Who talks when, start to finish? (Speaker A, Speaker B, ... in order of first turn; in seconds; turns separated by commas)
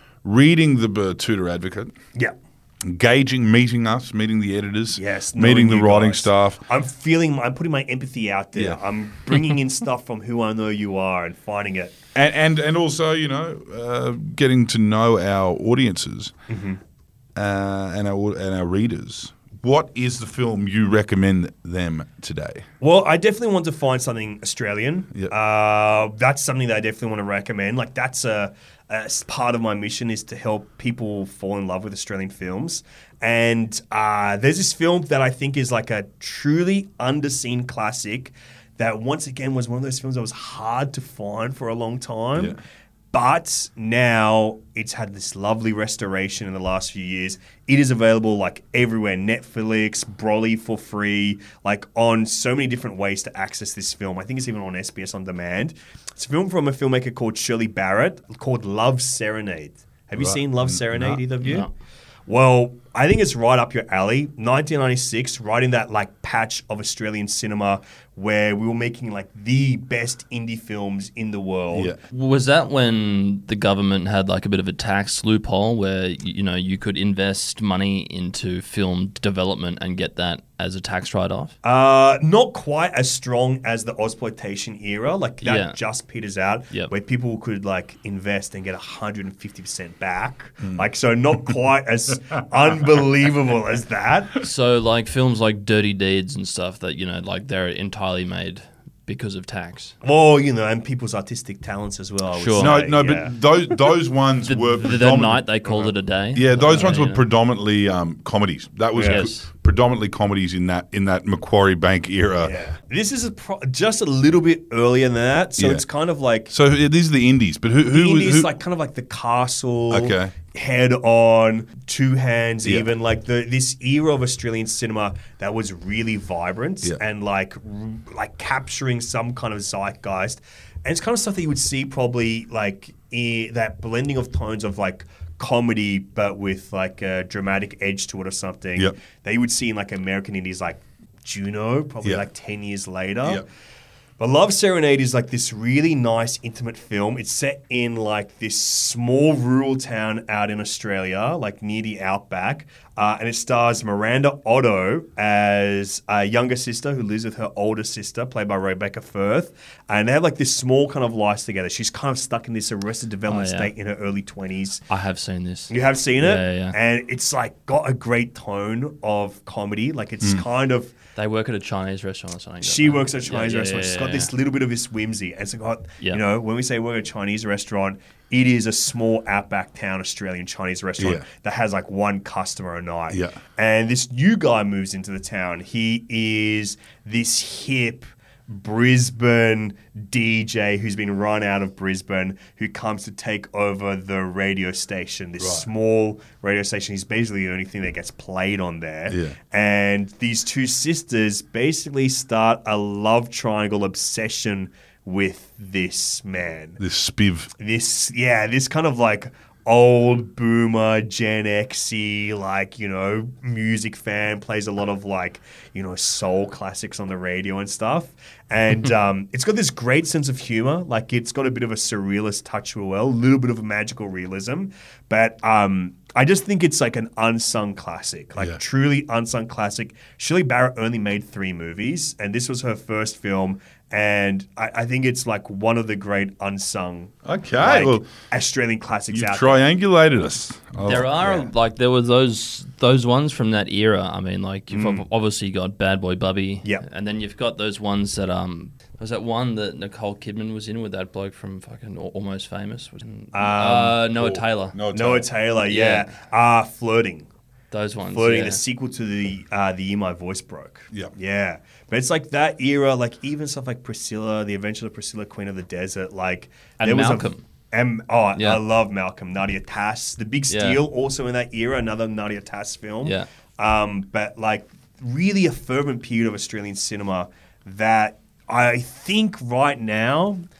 Speaker A: 0.2-1.9, Speaker A: 2.8-6.6, Speaker B: 5.0-11.9, Speaker A: 12.1-16.3, Speaker B: 16.5-16.8, Speaker A: 17.3-22.6, Speaker B: 22.8-42.6, Speaker B: 43.1-61.7, Speaker A: 60.2-61.2, Speaker C: 61.4-61.7, Speaker B: 62.3-71.9, Speaker A: 71.7-72.0, Speaker C: 72.1-81.5, Speaker B: 81.6-94.4, Speaker C: 85.4-85.8, Speaker C: 94.4-99.9, Speaker B: 100.0-103.3, Speaker C: 102.3-102.8, Speaker A: 102.6-105.5, Speaker C: 104.4-107.2, Speaker B: 105.6-105.9, Speaker A: 106.3-112.5, Speaker B: 108.9-109.2, Speaker C: 109.0-109.5, Speaker B: 112.4-116.5, Speaker A: 115.6-115.8, Speaker A: 116.5-118.5, Speaker B: 117.9-143.4, Speaker A: 119.9-120.3, Speaker A: 122.6-122.9, Speaker B: 144.2-164.8, Speaker C: 163.3-163.7, Speaker C: 164.9-166.8, Speaker B: 165.7-170.9, Speaker C: 171.2-174.3, Speaker B: 172.6-206.8, Speaker A: 181.0-181.2, Speaker A: 183.1-183.4, Speaker A: 195.4-195.7, Speaker A: 199.1-199.3, Speaker A: 206.8-207.5, Speaker B: 207.6-239.6, Speaker A: 237.2-238.1, Speaker A: 239.1-241.1, Speaker C: 240.8-254.8, Speaker B: 241.2-241.5, Speaker B: 244.7-245.0, Speaker B: 253.3-257.3, Speaker A: 254.7-255.2, Speaker C: 255.6-256.1, Speaker C: 257.7-258.6, Speaker B: 258.1-280.4, Speaker C: 266.8-267.4, Speaker C: 270.5-270.8